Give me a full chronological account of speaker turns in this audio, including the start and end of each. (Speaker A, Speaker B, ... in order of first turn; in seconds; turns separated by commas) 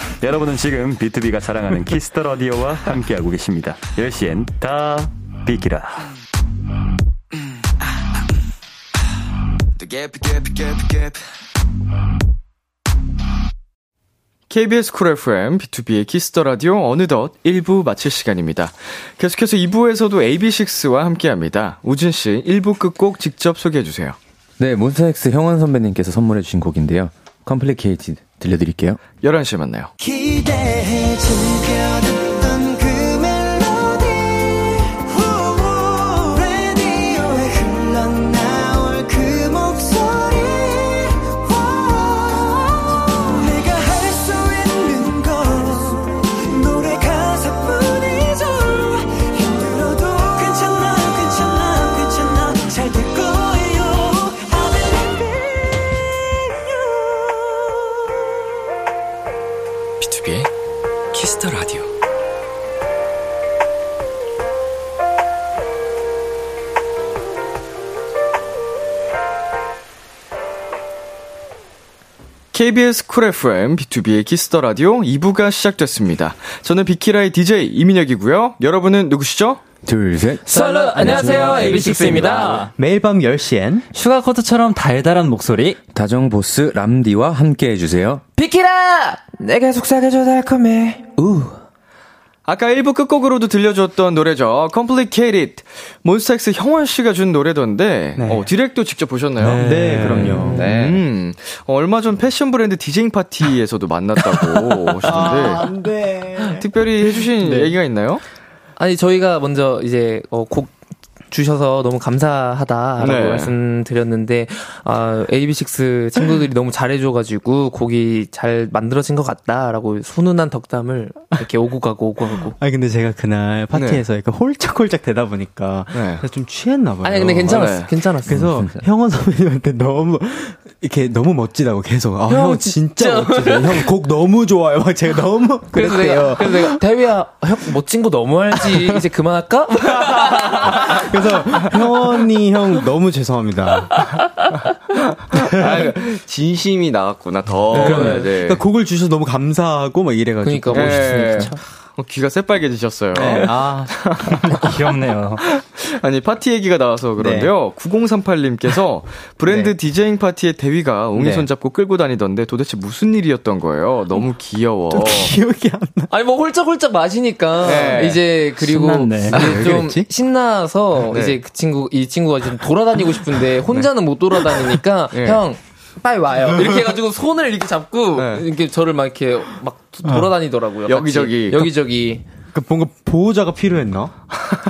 Speaker A: 0.2-6.1, Speaker B: 9.8-11.2, Speaker B: 14.5-24.2, Speaker C: 24.6-29.0, Speaker B: 29.2-29.9, Speaker D: 30.0-55.7, Speaker B: 60.0-60.5, Speaker B: 61.1-61.9, Speaker B: 72.5-79.6, Speaker C: 79.8-82.6, Speaker E: 80.5-82.7, Speaker F: 80.5-82.7, Speaker G: 82.8-83.9, Speaker E: 83.9-85.8, Speaker C: 85.9-88.2, Speaker F: 88.4-91.6, Speaker B: 92.5-105.7, Speaker G: 98.2-98.5, Speaker E: 99.4-100.6, Speaker G: 99.6-100.6, Speaker C: 100.5-101.0, Speaker G: 105.0-107.8, Speaker B: 106.5-108.2, Speaker F: 108.8-110.7, Speaker F: 111.3-122.5, Speaker B: 113.0-113.5, Speaker G: 122.6-136.8, Speaker B: 123.7-124.0, Speaker B: 125.9-126.2, Speaker F: 127.0-128.4, Speaker B: 127.5-127.9, Speaker C: 128.3-128.8, Speaker F: 132.3-133.9, Speaker F: 135.7-141.1, Speaker G: 140.7-143.9, Speaker B: 145.3-148.6, Speaker G: 147.7-151.6, Speaker F: 147.7-148.3, Speaker F: 150.4-151.6, Speaker B: 150.7-154.9, Speaker G: 153.1-153.9, Speaker E: 154.4-155.4, Speaker B: 155.4-165.3, Speaker G: 157.2-157.5, Speaker G: 159.5-159.7, Speaker G: 161.2-161.5, Speaker G: 164.9-166.1, Speaker F: 166.1-182.2, Speaker B: 167.6-168.2, Speaker E: 168.6-169.4, Speaker G: 169.0-170.1, Speaker B: 171.1-171.4, Speaker B: 175.1-175.4, Speaker B: 178.2-178.4, Speaker B: 180.9-181.7, Speaker G: 182.5-184.1